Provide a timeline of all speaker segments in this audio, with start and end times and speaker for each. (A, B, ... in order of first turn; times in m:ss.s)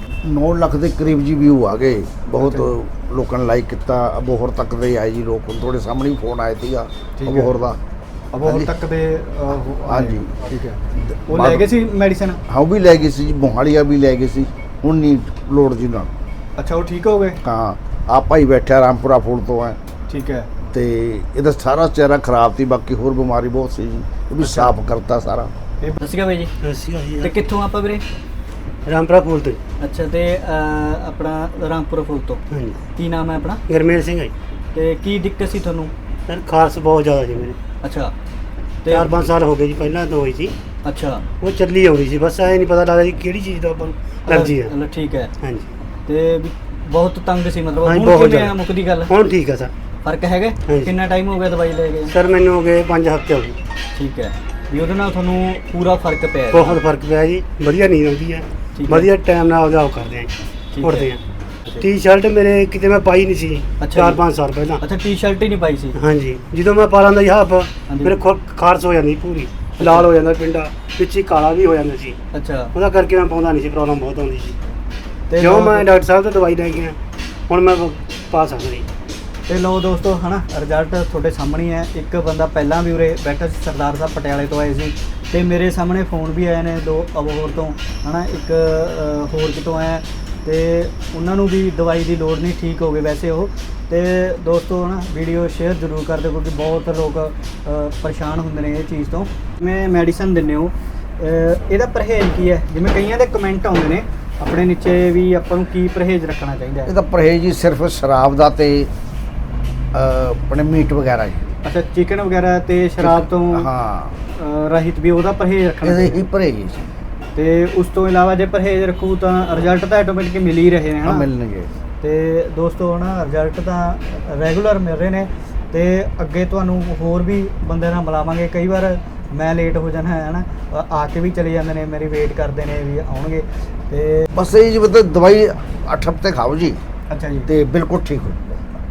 0:00.2-0:07.8 A
0:02.4-0:02.7 B
0:07.2-0:07.6 B
0:08.3-0:12.4 B
0:08.4-0:08.7 A
0:09.7-0:10.4 A
0:10.9-0:11.7 A
0:12.5-0:16.1 A
0:16.6-0:17.4 B
0:17.4-0:19.8 A
0:20.1-0:20.5 B
0:20.7-0:25.5 A
0:24.4-0:24.7 B
0:25.8-0:26.5 B
0:26.6-0:27.3 C
0:27.2-0:28.0 B
0:28.8-0:29.6 C
0:29.8-0:32.4 B
0:32.5-0:32.8 C
0:32.9-0:33.6 B
0:33.7-0:34.3 C
0:34.7-0:35.9 B
0:36.3-0:37.6 C
0:37.8-0:38.1 B
0:38.8-0:39.3 B
0:38.9-0:40.6 C
0:40.8-0:41.2 B
0:41.4-0:44.7 C
0:44.2-0:45.3 B
0:45.4-0:45.7 C
0:46.1-0:49.1 B
0:47.8-0:49.7 C
0:50.0-0:52.1 B
0:50.6-0:50.9 C
0:52.1-0:53.6 C
0:53.9-0:56.8 B
0:56.5-1:00.3 C
0:58.7-0:59.1 B
1:00.7-1:01.1 B
1:00.8-1:01.2 C
1:01.8-1:04.8 C
1:03.8-1:04.2 B
1:04.8-1:06.0 B
1:05.9-1:12.2 C
1:07.9-1:08.2 B
1:09.8-1:10.1 B
1:12.3-1:12.7 B
1:12.7-1:14.6 C
1:15.3-1:15.9 B
1:15.4-1:17.0 C
1:17.5-1:18.9 C
1:19.5-1:46.9 B
1:46.8-1:48.9 A
1:49.9-1:51.5 A
1:51.6-1:53.7 B
1:53.0-1:54.2 A
1:54.3-1:56.2 B
1:55.8-1:56.8 A
1:57.4-2:01.3 B
2:01.0-2:01.7 A
2:02.0-2:14.3 B
2:14.3-2:16.8 A
2:17.1-2:17.5 B
2:17.5-2:18.6 A